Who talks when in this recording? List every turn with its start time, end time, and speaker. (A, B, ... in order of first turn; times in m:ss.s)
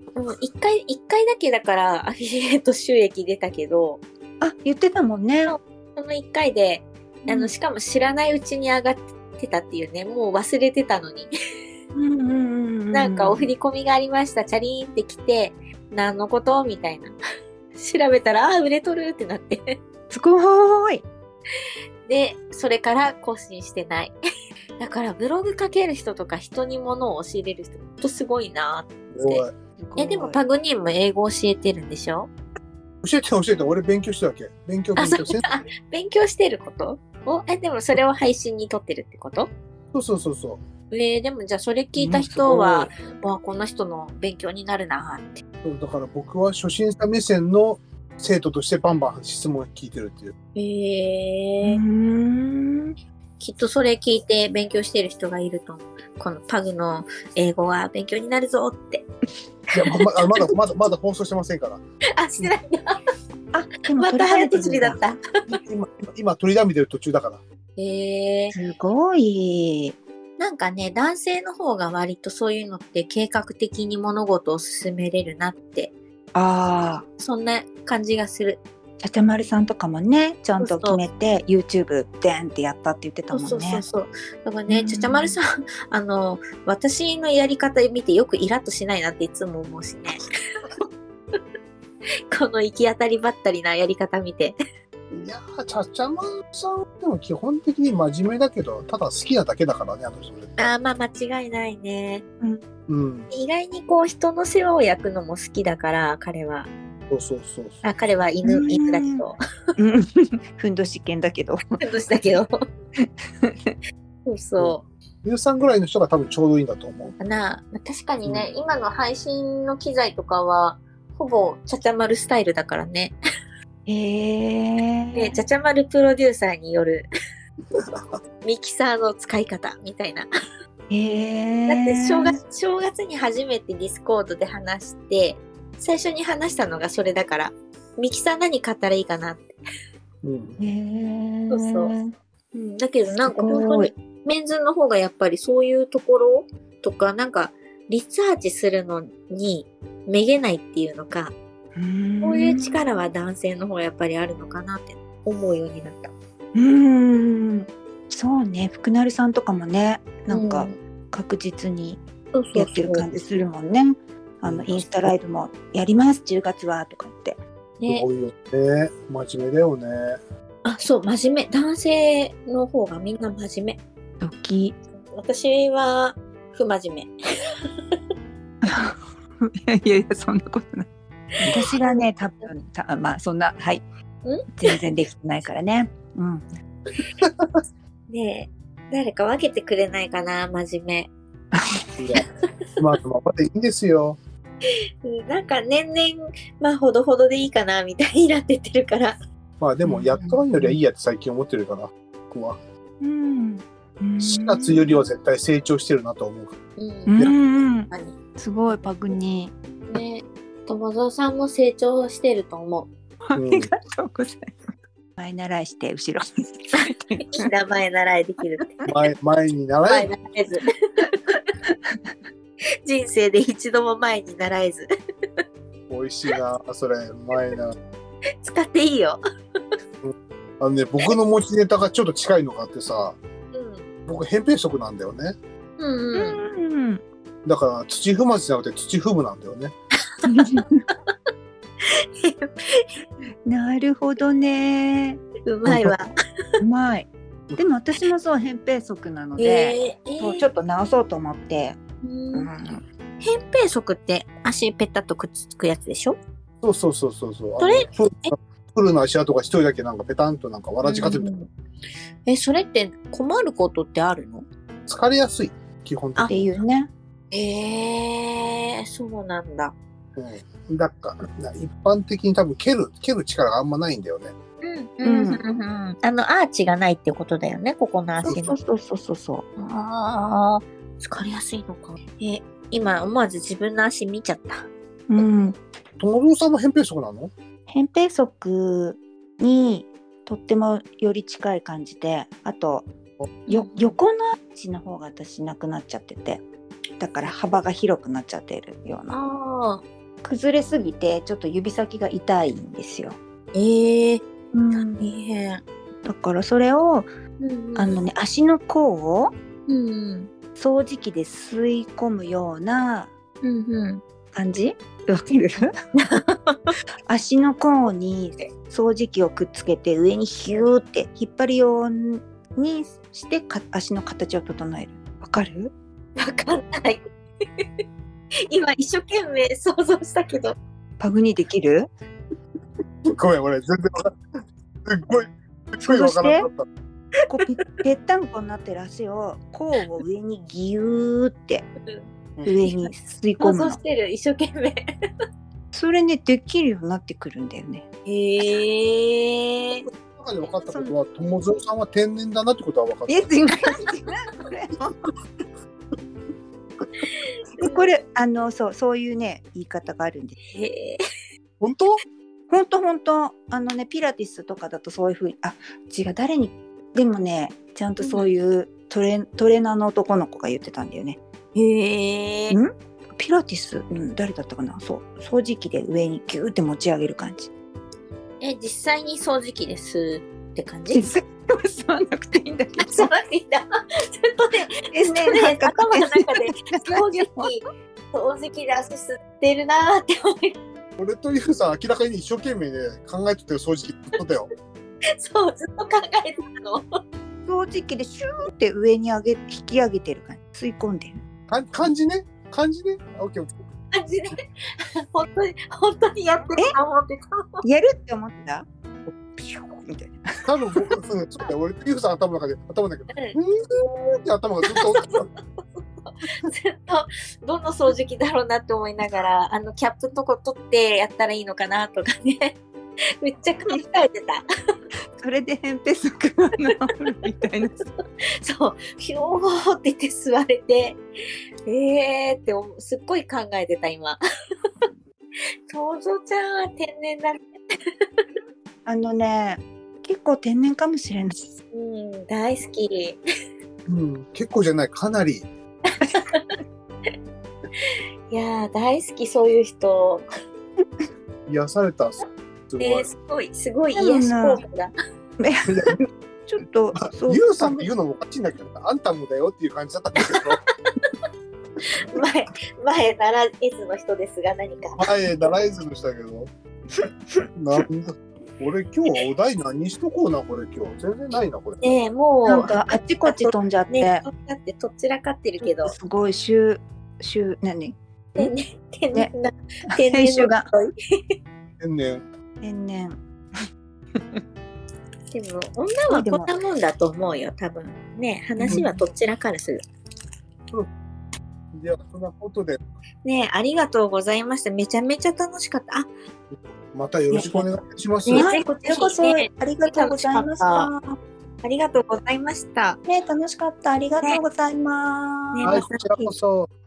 0:00.2-0:04.0 A
0:04.4-0:05.5 B
0:05.4-0:11.3 A
0:07.2-0:07.5 B
0:11.9-0:13.5 B
0:12.9-0:17.2 A
0:17.7-0:19.8 A
0:20.1-0:21.0 B
0:22.0-0:24.2 A
0:24.8-0:29.4 A
0:29.1-0:29.5 C
0:29.8-0:30.4 B
0:30.0-0:32.3 A
0:33.0-0:35.4 C
0:35.0-0:39.5 A
0:39.9-0:40.6 C
0:40.9-0:45.4 A
0:42.0-0:42.9 B
0:45.6-0:50.3 C
0:50.6-0:51.8 A
0:51.6-0:53.0 B
0:53.4-0:59.0 A
0:59.7-1:01.8 C
1:02.2-1:03.0 A
1:03.5-1:05.0 B
1:03.9-1:05.2 A
1:05.5-1:07.4 C
1:07.8-1:08.6 A
1:08.5-1:10.0 B
1:10.4-1:15.9 A
1:16.3-1:17.0 B
1:17.2-1:18.6 A
1:19.0-1:23.8 B
1:20.6-1:21.0 A
1:23.3-1:30.2 A
1:24.7-1:25.4 B
1:32.3-1:34.6 A
1:35.1-1:40.7 C
1:40.6-1:42.2 A
1:42.9-1:43.3 C
1:43.3-1:46.7 A
1:47.1-1:47.8 C
1:47.8-1:49.4 A
1:48.5-1:49.2 B
1:49.8-1:51.6 B
1:51.8-1:52.5 A
1:53.0-1:53.7 B
1:54.2-1:54.8 A
1:54.6-1:57.2 C
1:57.2-2:03.2 A
2:03.8-2:05.4 B
2:05.1-2:07.1 A
2:07.8-2:08.0 C
2:08.4-2:10.3 A
2:10.9-2:12.4 B
2:11.7-2:19.6 A
2:20.2-2:20.6 C
2:20.6-2:22.1 B
2:21.5-2:21.9 A
2:22.5-2:31.3 A
2:23.2-2:23.9 B
2:31.7-2:32.8 B
2:32.2-2:36.1 A
2:36.5-2:42.0 B
2:40.3-2:40.8 A
2:42.3-2:43.0 A
2:42.5-2:47.4 B
2:44.4-2:45.1 C
2:47.8-2:48.0 A
2:47.9-2:50.2 C
2:50.6-2:53.8 A
2:54.2-2:54.8 B
2:55.1-2:57.1 A
2:58.6-3:03.8 B
3:04.5-3:06.4 B
3:07.2-3:07.5 C
3:08.1-3:11.1 A
3:11.5-3:11.8 B
3:12.0-3:12.2 C
3:12.8-3:14.2 C
3:15.0-3:19.2 A
3:19.6-3:22.6 C
3:19.8-3:20.8 B
3:23.0-3:25.0 B
3:24.2-3:26.6 C
3:26.8-3:28.2 A
3:27.1-3:29.5 B
3:29.9-3:32.9 A
3:33.2-3:37.5 B
3:33.3-3:33.7 C
3:36.7-3:38.8 A
3:38.8-3:40.1 C
3:39.8-3:41.5 A
3:41.7-3:42.0 B
3:42.8-3:44.9 A
3:45.9-3:47.7 C
3:48.4-3:49.2 A
3:50.0-3:53.2 C
3:53.5-3:53.9 A
3:54.1-3:55.4 C
3:55.8-3:56.4 A
3:56.1-3:57.0 B
3:57.4-3:59.7 C
4:00.2-4:00.8 B
4:01.8-4:02.9 A
4:03.4-4:05.2 B
4:05.4-4:06.1 A
4:06.6-4:11.8 B
4:09.4-4:10.4 A
4:12.0-4:12.5 A
4:12.3-4:12.8 B
4:13.2-4:16.2 A
4:16.6-4:21.3 C
4:17.6-4:18.3 A
4:20.8-4:21.5 A
4:22.2-4:24.4 A
4:24.9-4:26.6 C
4:26.3-4:26.9 B
4:27.3-4:29.8 A
4:30.2-4:34.3 C
4:34.6-4:38.6 A
4:35.0-4:35.4 B
4:38.2-4:39.4 B
4:39.6-4:45.3 A
4:45.1-4:45.6 B
4:46.0-4:47.3 C
4:47.7-4:52.9 B
4:53.5-4:54.0 A
4:53.5-4:56.4 B
4:57.0-4:59.2 B
4:59.1-4:59.8 A
5:00.2-5:03.2 B
5:03.5-5:05.6 A
5:04.5-5:05.0 B
5:06.0-5:07.1 B
5:07.4-5:08.0 A
5:07.8-5:09.3 B
5:09.7-5:10.3 A
5:10.6-5:13.1 B
5:13.4-5:14.0 A
5:14.3-5:15.7 B
5:16.0-5:16.7 A
5:17.1-5:25.7 B
5:26.2-5:27.0 A
5:28.5-5:30.6 A
5:31.0-5:31.9 B
5:33.0-5:36.6 C
5:35.8-5:36.5 B
5:37.3-5:41.7 B
5:42.4-5:43.8 B
5:43.4-5:44.8 A
5:45.7-5:47.8 B
5:48.0-5:49.9 A
5:50.1-5:53.3 C
5:50.6-5:50.9 B
5:53.1-5:55.0 B
5:57.6-5:57.9 A
5:57.6-6:00.4 B
6:00.5-6:01.0 A
6:01.6-6:02.0 C
6:02.5-6:11.2 B
6:08.0-6:08.3 A
6:11.5-6:12.6 A
6:12.5-6:17.5 B
6:18.4-6:21.0 A
6:20.9-6:23.1 B
6:22.8-6:30.6 A
6:24.9-6:27.6 B
6:31.0-6:34.5 C
6:35.2-6:37.0 A
6:37.4-6:41.2 B
6:41.5-6:43.6 C
6:43.9-6:47.6 A
6:47.6-6:48.6 B
6:49.4-6:50.9 B
6:50.4-6:55.3 C
6:53.1-6:53.4 A
6:54.7-6:55.1 A
6:56.0-7:02.6 A
7:03.2-7:04.4 A
7:05.2-7:07.7 B
7:08.4-7:11.0 A
7:11.7-7:14.2 A
7:15.7-7:18.0 A
7:18.8-7:21.5 B
7:21.7-7:23.2 A
7:23.9-7:25.5 C
7:25.9-7:26.6 A
7:27.8-7:30.2 A
7:31.5-7:33.1 C
7:32.8-7:34.9 A
7:33.9-7:34.6 B
7:35.4-7:37.9 B
7:35.7-7:36.0 C
7:37.0-7:40.6 C
7:41.8-7:45.0 A
7:45.0-7:46.5 C
7:47.0-7:47.4 B
7:47.6-7:51.9 C
7:51.8-7:55.9 A
7:52.4-7:54.2 B
7:55.6-7:58.5 B
7:58.4-8:01.3 A
7:59.9-8:00.7 B
8:01.8-8:02.2 C
8:02.6-8:03.2 B
8:04.1-8:04.4 B
8:05.3-8:09.8 A
8:06.1-8:06.5 B
8:08.6-8:08.9 B
8:11.7-8:12.8 C
8:13.2-8:16.1 A
8:16.9-8:18.5 C
8:17.3-8:17.7 B
8:18.2-8:20.9 A
8:18.3-8:21.2 B
8:21.6-8:23.0 A
8:23.0-8:25.8 B
8:25.5-8:26.3 A
8:25.6-8:26.7 C